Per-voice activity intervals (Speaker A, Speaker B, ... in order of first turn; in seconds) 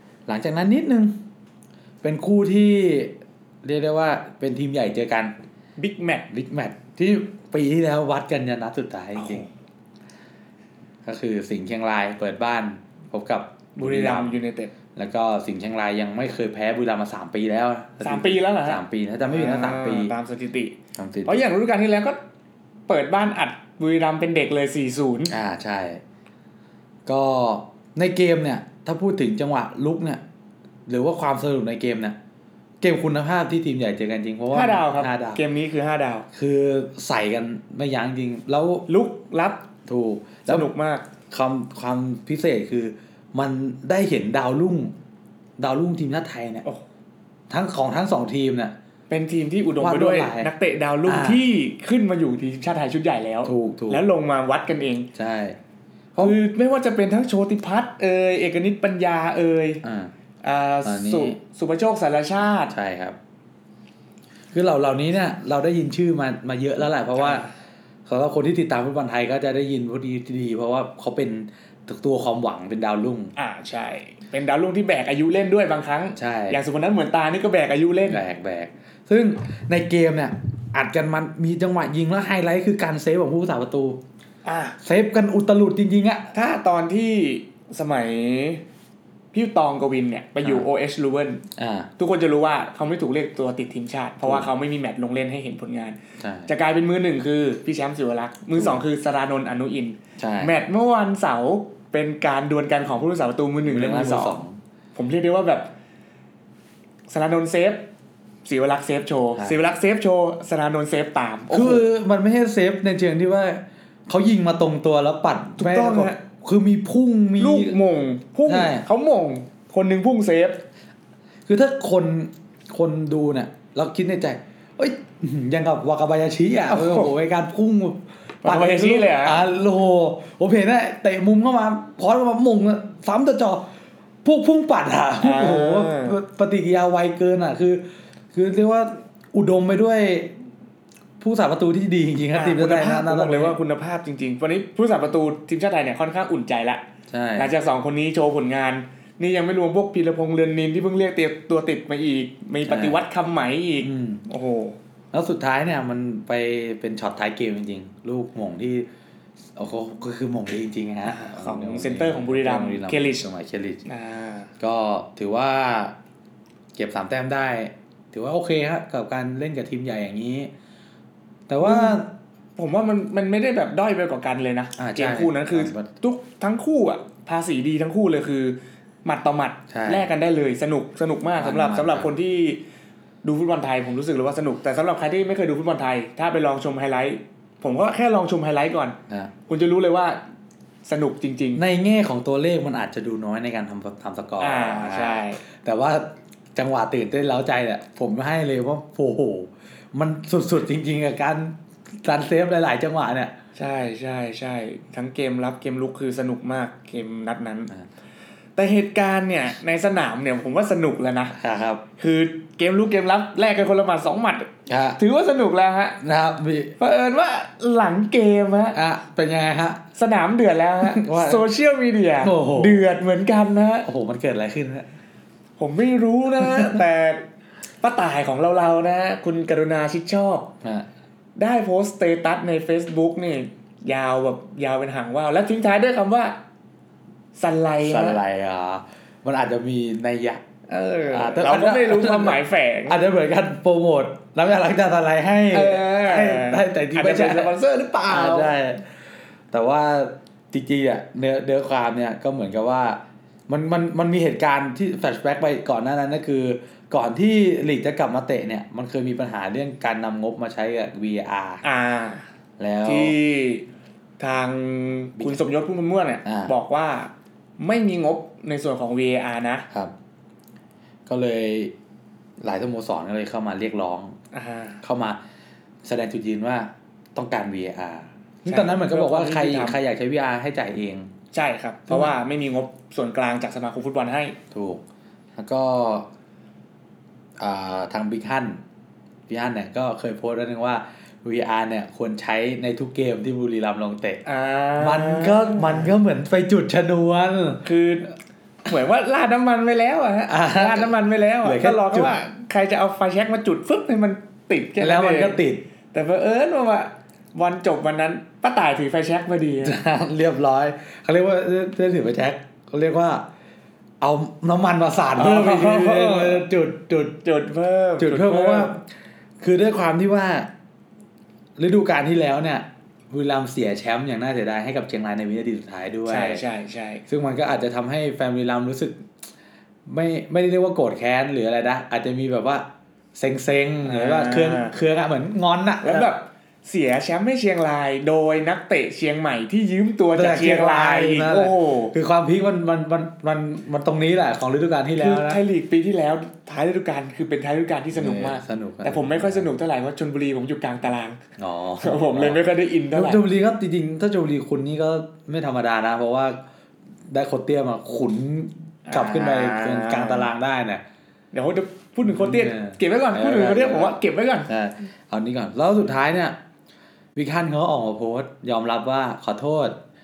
Speaker A: 0.3-1.1, 2.0-5.3, 6.3-9.5, 11.0-14.4, 14.9-20.1, 20.9-21.4, 25.3-26.0, 27.1-30.2, 30.9-32.2, 32.8-35.4, 36.3-38.9, 39.9-40.7, 41.3-45.0, 45.6-46.6, 47.5-48.8, 49.8-50.5, 51.1-51.4, 53.5-54.1, 55.1-55.6, 59.8-60.1, 60.8-61.4, 62.7-63.2, 64.5-67.4, 68.1-73.3, 76.2-76.6, 78.1-84.0, 84.8-86.3, 91.6-91.9, 94.2-94.5, 96.2-96.5, 98.5-98.8, 100.2-100.5, 103.7-104.6, 109.4-109.6, 111.5-117.8, 118.5-118.9, 121.5-133.7, 134.2-140.3, 141.2-143.6, 147.1-147.5, 152.7-153.0, 153.8-154.2, 155.1-158.9, 159.6-163.8, 164.6-166.0, 166.8-170.5, 171.5-172.1, 174.8-175.9, 179.7-180.1, 181.4-182.1, 191.6-203.4, 211.3-211.8, 214.7-215.0, 216.0-216.7, 218.7-219.8, 220.8-221.4, 222.2-222.9, 223.8-224.9, 237.8-240.4, 241.1-247.5, 248.1-249.0, 249.5-261.6, 262.6-263.2, 266.2-266.5, 271.1-271.7, 272.4-274.2, 274.8-275.2, 275.8-281.1, 281.9-282.1, 284.5-284.8, 285.4-286.1, 287.4-288.6, 289.3-294.2, 294.8-297.6, 300.3-302.2, 304.8-305.6, 309.6-313.3, 314.0-317.2, 318.0-318.9, 319.4-320.5, 321.6-326.4, 327.1-329.1, 329.9-336.1, 340.1-345.4, 347.9-349.5, 351.4-352.4, 352.9-356.4, 357.1-360.8, 362.1-366.4, 367.1-369.8
Speaker B: 5.8-6.3, 9.2-9.5, 13.8-14.7, 18.0-20.8, 21.3-22.2, 22.9-25.3, 34.5-36.3, 38.9-39.6, 40.5-41.1, 49.1-55.1, 56.2-59.8, 60.4-62.7, 67.2-67.5, 73.4-78.2, 84.5-84.8, 86.3-88.6, 89.3-91.5, 92.0-104.4, 105.0-105.7, 107.1-107.9, 108.5-111.8, 115.6-116.2, 117.4-120.6, 126.7-127.1, 128.4-129.4, 135.2-136.2, 142.3-146.8, 147.4-154.8, 161.1-163.3, 163.9-164.5, 171.6-172.0, 172.6-182.6, 183.2-190.2, 190.8-191.6, 194.4-195.4, 203.6-207.7, 208.6-211.4, 212.0-216.0, 216.8-218.8, 219.9-223.9, 225.6-227.2, 227.8-230.5, 231.4-236.4, 237.3-238.2, 240.7-243.0, 245.5-248.5, 261.6-262.3, 262.8-263.6, 264.2-269.7, 274.3-274.8, 278.5-279.8, 281.3-284.4, 294.2-295.9, 297.6-298.1, 298.6-305.4, 305.9-309.8, 315.1-316.5, 317.2-318.7, 326.1-327.0, 333.8-334.8, 335.8-341.9, 345.0-351.2, 351.8-353.2, 358.9-360.3, 361.3-364.5